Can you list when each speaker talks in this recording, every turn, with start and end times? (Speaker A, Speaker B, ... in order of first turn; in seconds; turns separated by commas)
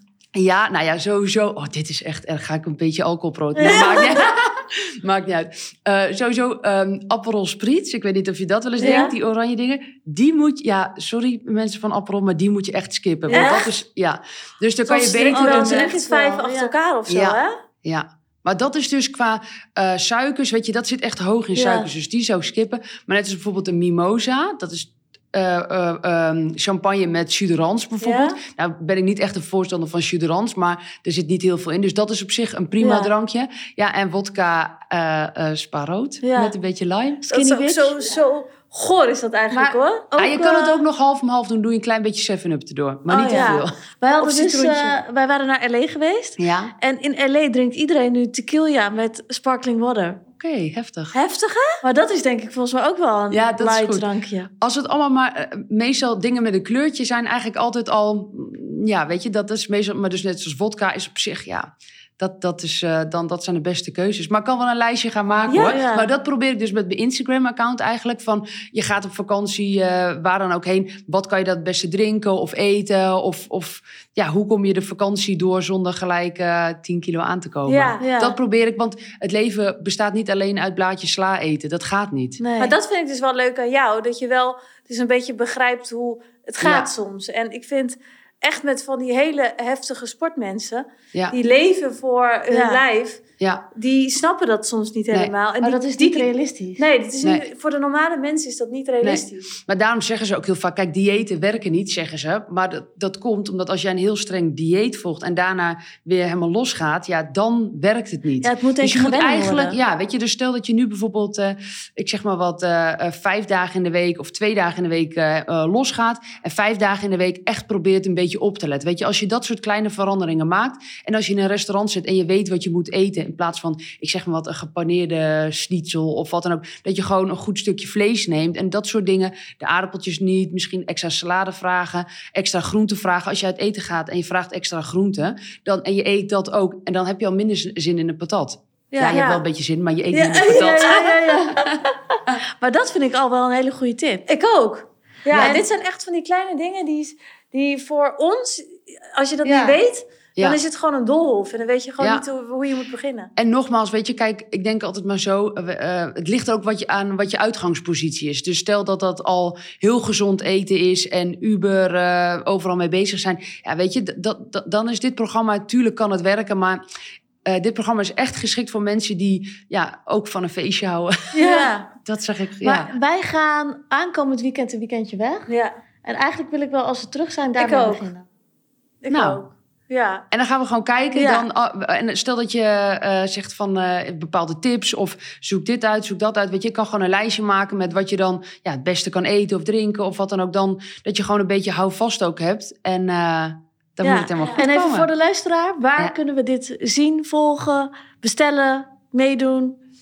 Speaker A: 0.3-15.9, Speaker B: 3.6-4.0, Speaker C: 3.6-4.1, Speaker C: 8.8-9.1, Speaker B: 8.8-9.1, Speaker B: 13.3-13.6, Speaker C: 13.3-13.7, Speaker C: 14.9-17.5, Speaker B: 15.2-16.7, Speaker A: 17.1-37.4, Speaker B: 21.6-21.8, Speaker C: 28.0-28.4, Speaker C: 37.3-40.1, Speaker B: 37.3-38.1, Speaker B: 39.5-40.8, Speaker A: 40.2-43.7, Speaker B: 43.1-50.2, Speaker C: 43.2-45.0, Speaker A: 46.4-46.7, Speaker A: 50.3-51.1, Speaker C: 51.1-51.8, Speaker B: 51.8-54.5, Speaker A: 53.3-54.1, Speaker A: 54.6-82.4, Speaker C: 65.5-65.8, Speaker B: 65.7-66.0, Speaker C: 77.7-78.1, Speaker B: 78.0-78.3, Speaker B: 82.4-82.8, Speaker C: 82.6-93.2, Speaker A: 86.6-86.9, Speaker B: 92.5-92.8, Speaker A: 93.4-93.7, Speaker C: 93.7-99.5, Speaker B: 95.6-96.8, Speaker A: 99.0-141.1, Speaker B: 108.4-109.8, Speaker C: 138.9-139.4, Speaker C: 140.1-141.4, Speaker B: 140.5-141.8, Speaker B: 142.6-144.2, Speaker C: 144.3-153.3, Speaker A: 145.3-145.6, Speaker B: 145.4-145.6, Speaker B: 149.4-149.8, Speaker A: 152.0-152.2, Speaker A: 153.4-166.8, Speaker A: 167.4-171.4, Speaker B: 171.3-171.9, Speaker C: 171.4-171.8, Speaker A: 172.1-172.9, Speaker B: 172.6-175.5, Speaker C: 175.5-175.8, Speaker B: 176.0-178.2, Speaker C: 177.6-178.1, Speaker C: 179.0-180.2, Speaker A: 179.1-179.4, Speaker A: 180.3-195.1, Speaker B: 194.1-199.8